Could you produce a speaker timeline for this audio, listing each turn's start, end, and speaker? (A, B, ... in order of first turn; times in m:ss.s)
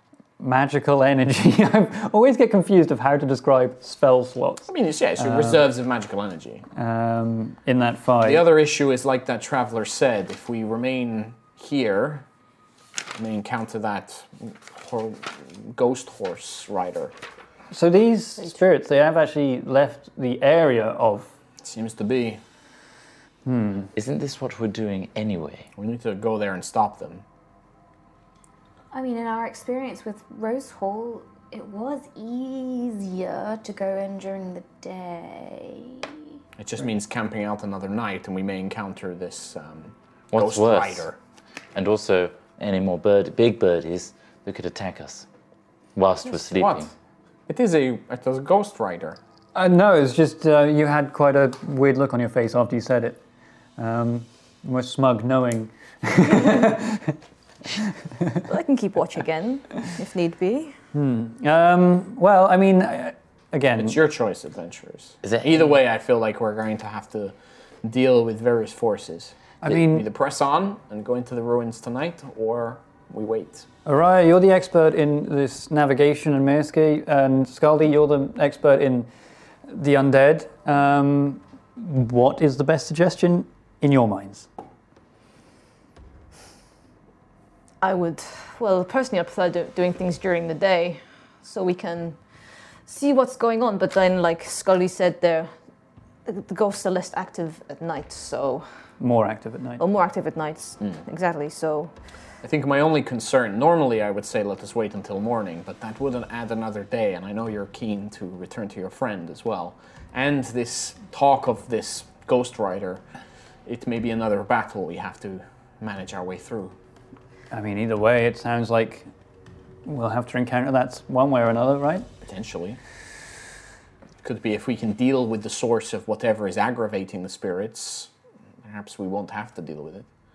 0:00.4-0:05.7 A
0:04.7-0:06.6 B
0:06.8-0:08.5 A
0:08.2-0:12.2 B
0:13.2-0:17.1 B
0:17.7-0:21.3 A
0:21.6-0:22.4 B
0:23.5-0:23.9 A
0:24.0-0:25.7 C
0:25.8-0:27.2 B
0:28.9-0:36.1 D
0:36.6-0:41.2 B
0:40.3-0:41.1 C
0:41.7-0:45.3 C
0:46.0-0:46.9 C
0:46.3-0:46.9 B
0:47.5-0:49.2 B
0:49.6-0:53.2 A
0:53.8-0:57.2 A
0:58.5-1:00.7 E
1:00.9-1:04.0 A
1:03.8-1:13.7 B
1:05.2-1:05.6 C
1:09.6-1:10.1 A
1:13.9-1:19.1 A
1:19.7-1:24.5 A
1:27.8-1:32.2 E
1:32.9-1:35.5 E
1:36.3-1:38.6 E
1:39.0-1:39.8 A
1:39.8-1:41.9 E
1:42.4-1:53.0 B
1:53.7-1:56.8 B
1:57.5-1:59.1 A
1:59.9-2:02.1 A
2:02.3-2:02.8 B
2:04.2-2:08.1 B
2:08.6-2:10.1 B